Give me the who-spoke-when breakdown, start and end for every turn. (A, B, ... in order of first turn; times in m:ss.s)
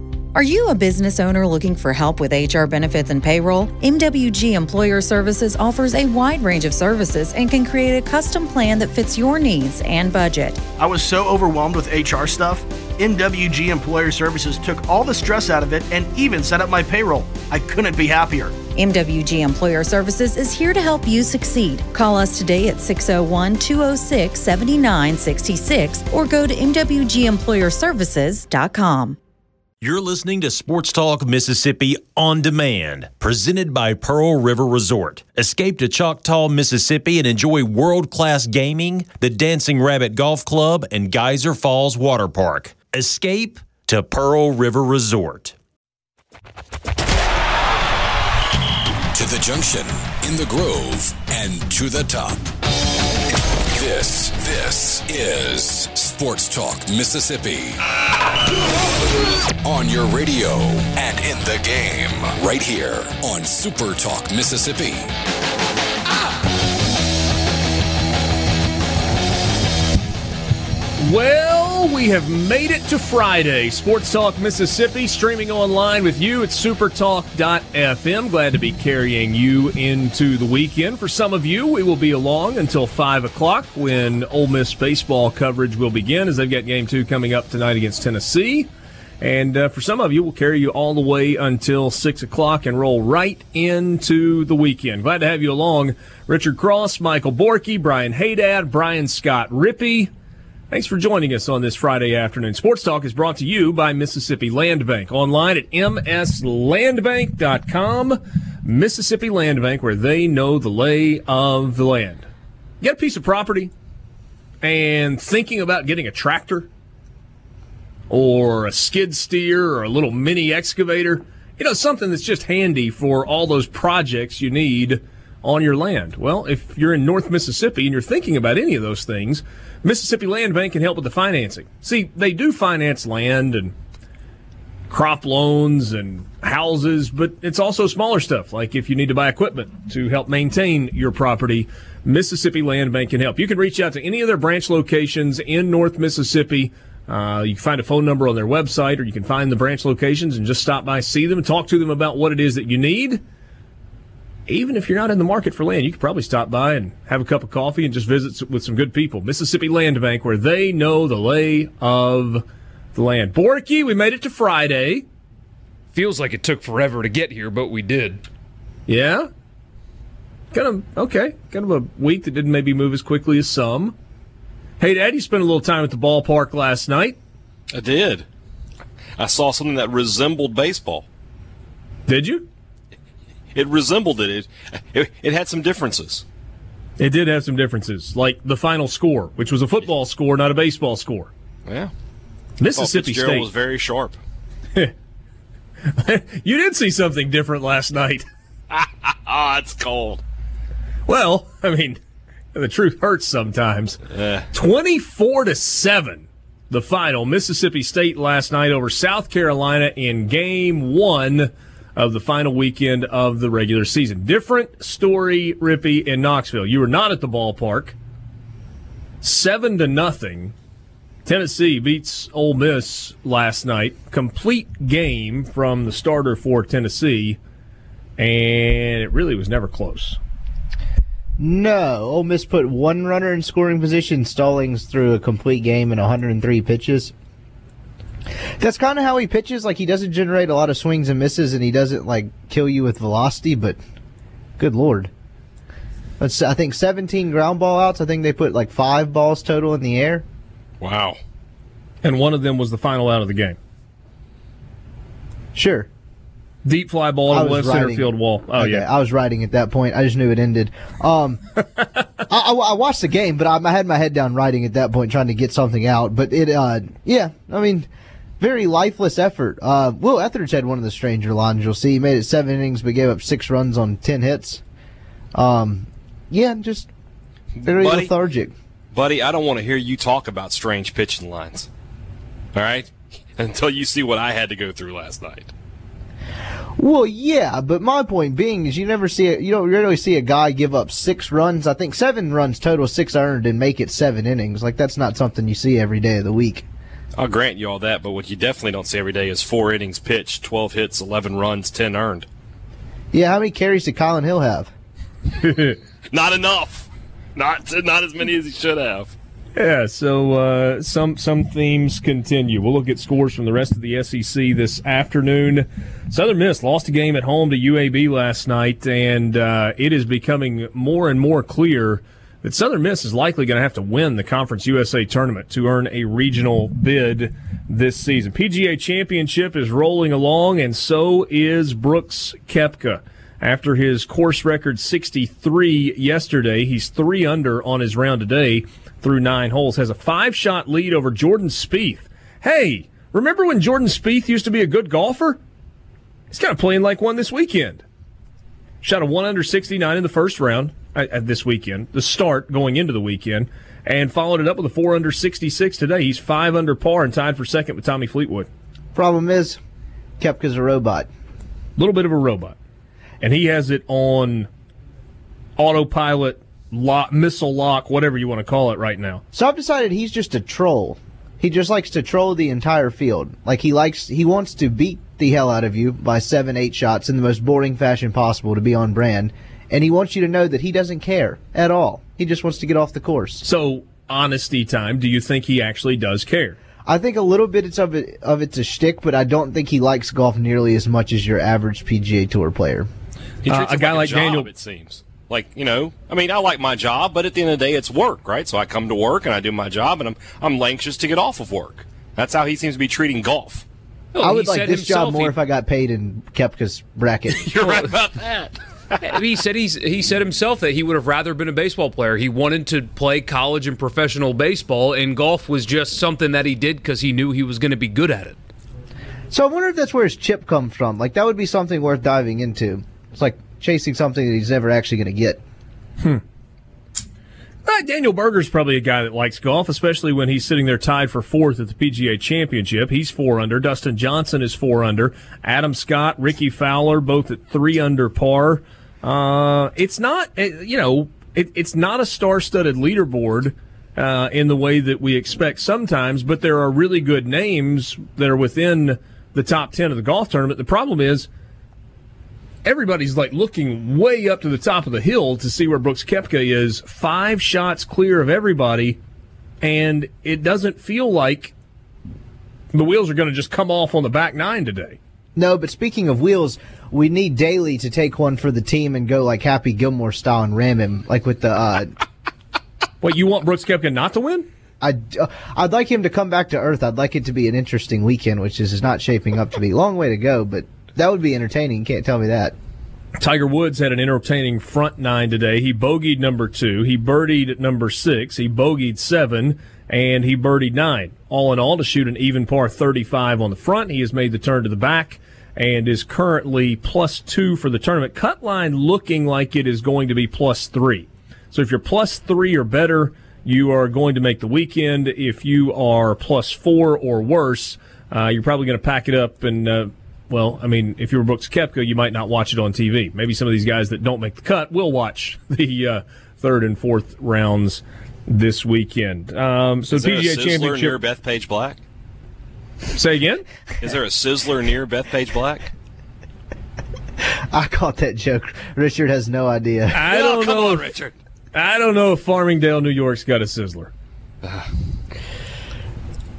0:00.3-0:10.6 A
0:10.8-0:18.6 B
0:18.7-0:29.2 A
0:29.8-0:45.6 C
0:49.1-0:52.5 D
0:53.7-0:57.8 D
0:59.6-1:05.1 D
1:11.0-1:28.7 E
1:29.2-1:40.1 E
1:40.7-1:52.2 E
1:52.8-1:53.7 E
1:54.6-1:56.7 E
1:58.1-2:13.7 E
2:14.9-2:33.2 E
2:34.5-2:45.0 E
2:45.9-2:48.2 F
2:48.9-2:49.3 E
2:50.5-2:53.9 E
2:54.8-2:57.2 E
2:57.7-2:58.2 G
2:59.2-3:01.1 G
3:02.1-3:02.5 E
3:03.5-3:06.2 G
3:07.0-3:11.3 E
3:11.6-3:11.9 G
3:12.6-3:13.5 E
3:12.8-3:14.2 G
3:15.8-3:18.2 E
3:18.7-3:20.2 G
3:21.1-3:22.0 E
3:22.5-3:24.0 E
3:24.1-3:24.5 G
3:24.5-3:38.0 E
3:39.2-3:40.5 E
3:41.2-3:47.4 E
3:48.2-3:50.2 E
3:51.4-3:57.1 H
3:58.6-4:03.8 H
4:04.6-4:05.1 H
4:06.2-4:10.2 H
4:10.8-4:11.2 G
4:12.0-4:13.6 E
4:15.5-4:15.9 H
4:16.6-4:18.9 E
4:17.3-4:21.4 H
4:22.3-4:27.9 H
4:28.4-4:34.6 H
4:35.3-4:36.9 H
4:37.6-4:38.1 G
4:37.6-4:38.5 H
4:38.9-4:41.7 G
4:42.5-4:45.5 G
4:46.8-4:56.6 H
4:57.2-5:02.3 G
5:03.1-5:04.7 H
5:05.4-5:05.8 E
5:06.1-5:09.1 G
5:09.5-5:45.4 E
5:46.3-5:47.8 E
5:48.8-5:58.5 E
5:58.9-5:59.6 H
6:00.2-6:01.1 H
6:01.8-6:02.6 E
6:03.2-6:04.5 E
6:05.6-6:09.2 E
6:09.3-6:23.4 H
6:23.4-6:26.6 E
6:26.8-6:32.9 H
6:33.4-6:43.6 G
6:33.4-6:34.5 E
6:44.1-6:45.4 F
6:44.2-6:47.7 H
6:47.3-6:49.2 G
6:49.0-6:58.4 F
6:59.3-7:05.4 H
7:07.6-7:31.3 E
7:32.6-7:39.0 E
7:39.6-7:41.5 E
7:42.7-7:45.0 E
7:45.4-7:51.9 H
7:53.0-7:54.5 E
7:54.8-8:02.5 H
8:03.2-8:41.0 E
8:39.9-8:41.8 G
8:42.9-8:43.4 E
8:43.8-8:45.7 G
8:47.5-8:50.1 H
8:49.9-8:50.9 E
8:50.1-8:51.1 G
8:51.5-8:53.9 E